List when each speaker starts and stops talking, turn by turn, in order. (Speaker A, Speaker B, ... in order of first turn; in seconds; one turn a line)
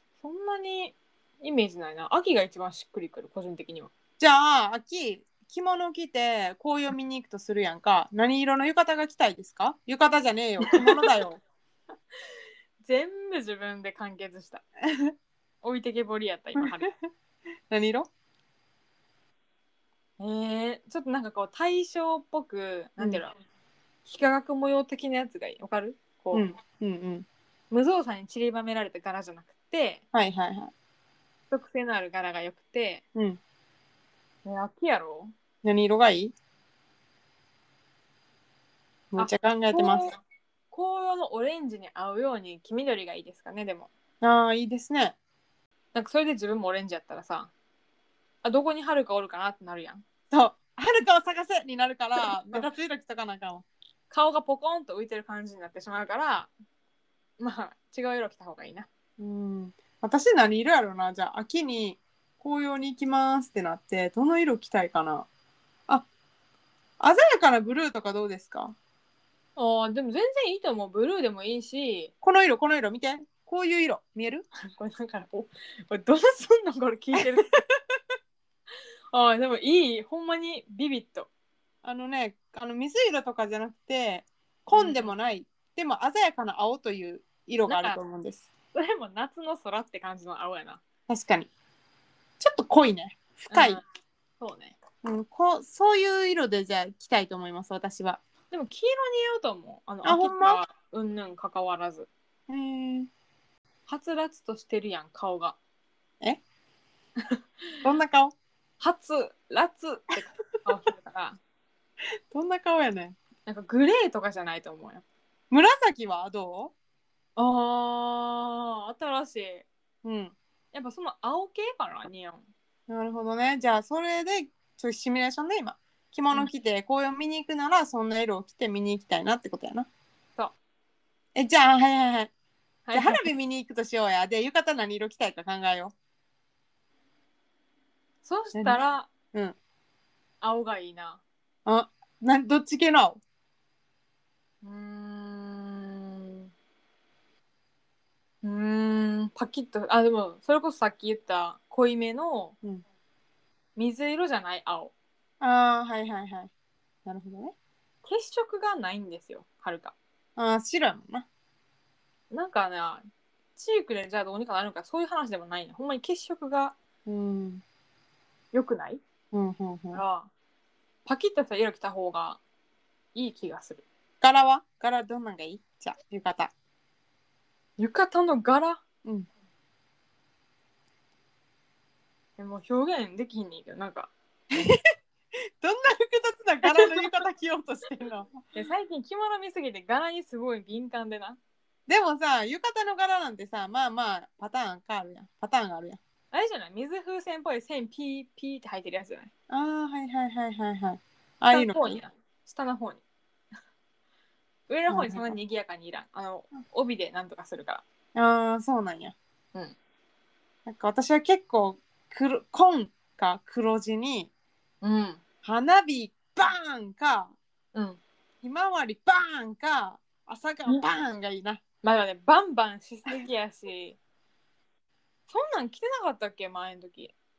Speaker A: 0.2-3.9
Speaker B: 4.2-11.4
Speaker A: 10.6-11.0
Speaker A: 12.8-14.6
Speaker A: 15.6-16.9
Speaker B: 16.6-16.9
Speaker B: 17.7-18.1
Speaker A: 20.2-23.4
Speaker A: 24.1-26.5
Speaker B: 26.3-27.2
Speaker A: 27.7-30.0
Speaker B: 30.1-30.7
Speaker A: 31.5-33.0
Speaker A: 34.4-35.3
Speaker B: 35.6-36.4
Speaker B: 39.1-40.1
Speaker A: 39.2-40.2
Speaker A: 40.7-43.9
Speaker B: 44.2-45.1
Speaker A: 45.9-47.5
Speaker A: 48.4-50.0
Speaker B: 50.3-53.6
Speaker A: 54.1-56.5
Speaker A: 57.4-58.9
Speaker B: 59.2-65.3
Speaker B: 67.0-68.8
Speaker A: 69.5-72.1
Speaker B: 72.2-74.4
Speaker A: 74.7-77.5
Speaker B: 77.2-77.6
Speaker A: 79.1-81.3
Speaker B: 81.8-88.5
Speaker A: 84.7-85.1
Speaker A: 87.7-88.0
Speaker A: 88.7-90.8
Speaker B: 91.1-91.5
Speaker B: 92.4-93.8
Speaker A: 93.5-93.8
Speaker A: 94.4-94.8
Speaker B: 95.0-98.2
Speaker A: 98.5-102.1
Speaker B: 100.0-100.6
Speaker B: 102.5-103.1
Speaker A: 103.9-105.6
Speaker B: 107.8-108.3
Speaker A: 108.8-111.4
Speaker B: 112.3-113.2
Speaker A: 113.5-115.0
Speaker B: 115.5-116.7
Speaker A: 117.4-119.7
Speaker B: 120.0-120.3
Speaker A: 120.7-122.5
Speaker B: 122.9-129.9
Speaker B: 131.3-132.3
Speaker A: 132.9-133.2
Speaker B: 132.9-135.9
Speaker A: 138.2-139.1
Speaker A: 140.4-141.2
Speaker B: 141.7-143.2
Speaker A: 144.6-146.5
Speaker A: 148.4-152.6
Speaker A: 153.8-154.9
Speaker B: 155.4-156.5
Speaker B: 157.0-157.5
Speaker A: 158.0-159.9
Speaker B: 160.4-161.2
Speaker A: 162.3-163.0
Speaker A: 163.6-166.8
Speaker B: 167.1-167.6
Speaker A: 168.5-169.0
Speaker B: 169.3-170.0
Speaker A: 169.9-170.3
Speaker A: 171.1-172.4
Speaker A: 173.1-173.8
Speaker B: 174.2-176.5
Speaker A: 177.8-178.8
Speaker A: 182.4-184.1
Speaker B: 184.5-184.8
Speaker B: 185.6-188.4
Speaker A: 188.5-191.4
Speaker B: 191.9-196.0
Speaker A: 196.3-199.3
Speaker B: 199.5-202.0
Speaker A: 201.5-203.0
Speaker A: 204.7-207.8
Speaker B: 204.9-205.3
Speaker B: 208.1-209.2
Speaker B: 210.7-214.3
Speaker A: 214.8-215.2
Speaker B: 215.4-217.3
Speaker A: 217.7-218.0
Speaker B: 218.4-221.6
Speaker A: 221.8-224.0
Speaker A: 225.3-227.1